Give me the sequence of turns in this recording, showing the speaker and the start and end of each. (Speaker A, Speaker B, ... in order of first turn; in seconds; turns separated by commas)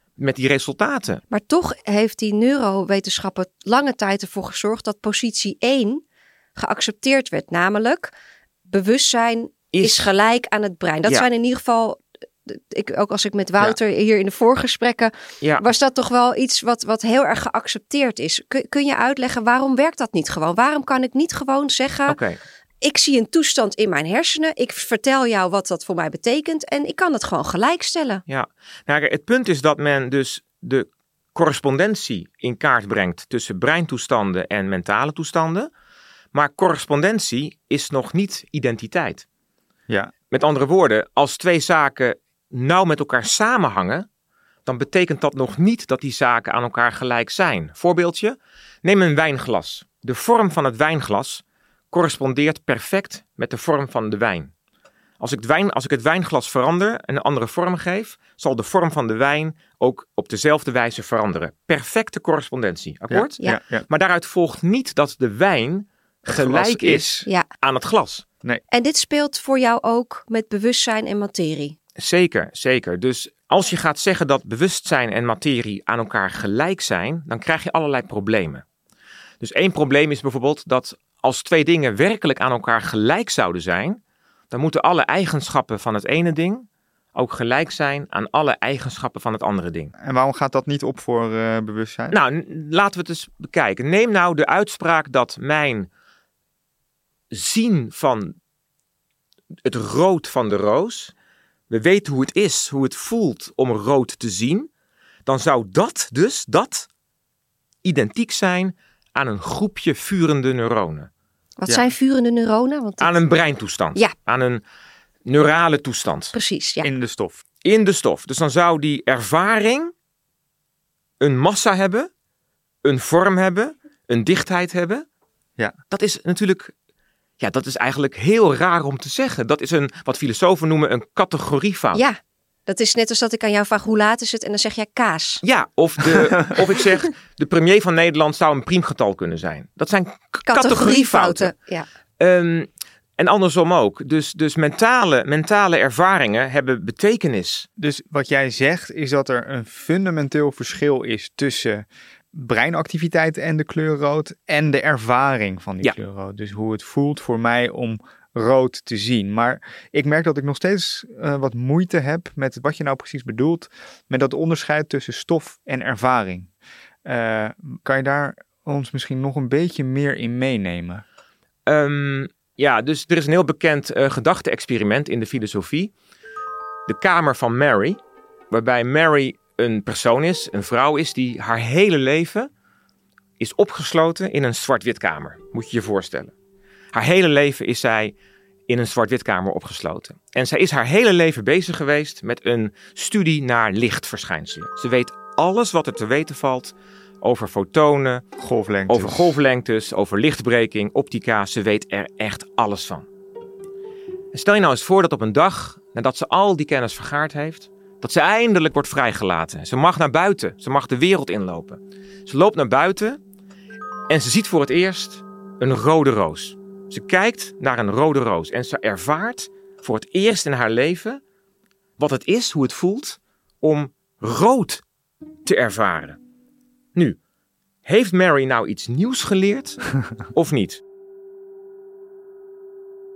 Speaker A: 0.2-1.2, Speaker B: 1.3-6.0, Speaker B: 6.5-8.1, Speaker B: 8.7-22.2, Speaker A: 9.7-10.1, Speaker A: 22.1-22.4, Speaker B: 22.8-28.2, Speaker A: 28.3-35.7, Speaker A: 36.3-39.2, Speaker A: 40.3-44.1, Speaker A: 44.6-54.5, Speaker A: 55.2-68.2, Speaker C: 63.1-63.8, Speaker C: 66.3-67.3, Speaker B: 68.7-71.8, Speaker A: 72.0-78.6, Speaker A: 79.4-84.0, Speaker A: 84.5-89.9, Speaker C: 90.0-92.2, Speaker A: 92.1-95.9, Speaker A: 97.3-98.3, Speaker A: 99.6-101.1, Speaker A: 101.7-104.7, Speaker A: 105.2-106.9, Speaker A: 107.8-111.1, Speaker B: 111.6-113.2, Speaker A: 113.0-114.6, Speaker A: 115.2-116.3, Speaker B: 116.3-116.9, Speaker C: 116.8-117.4, Speaker A: 117.6-119.9, Speaker A: 121.2-122.1, Speaker A: 122.8-125.0, Speaker A: 125.9-126.7, Speaker A: 127.4-132.0, Speaker B: 131.9-135.4, Speaker A: 135.4-141.5, Speaker B: 140.5-141.9, Speaker A: 142.2-147.7, Speaker C: 147.8-166.5, Speaker C: 167.0-171.0, Speaker A: 171.7-175.9, Speaker A: 176.9-178.0, Speaker A: 178.5-182.5, Speaker A: 183.4-186.3, Speaker A: 186.9-188.1, Speaker A: 188.7-198.2, Speaker C: 198.4-199.3, Speaker A: 198.9-203.1, Speaker A: 204.3-213.2, Speaker A: 214.1-221.2, Speaker A: 222.0-224.8, Speaker A: 225.4-226.2, Speaker A: 227.8-230.8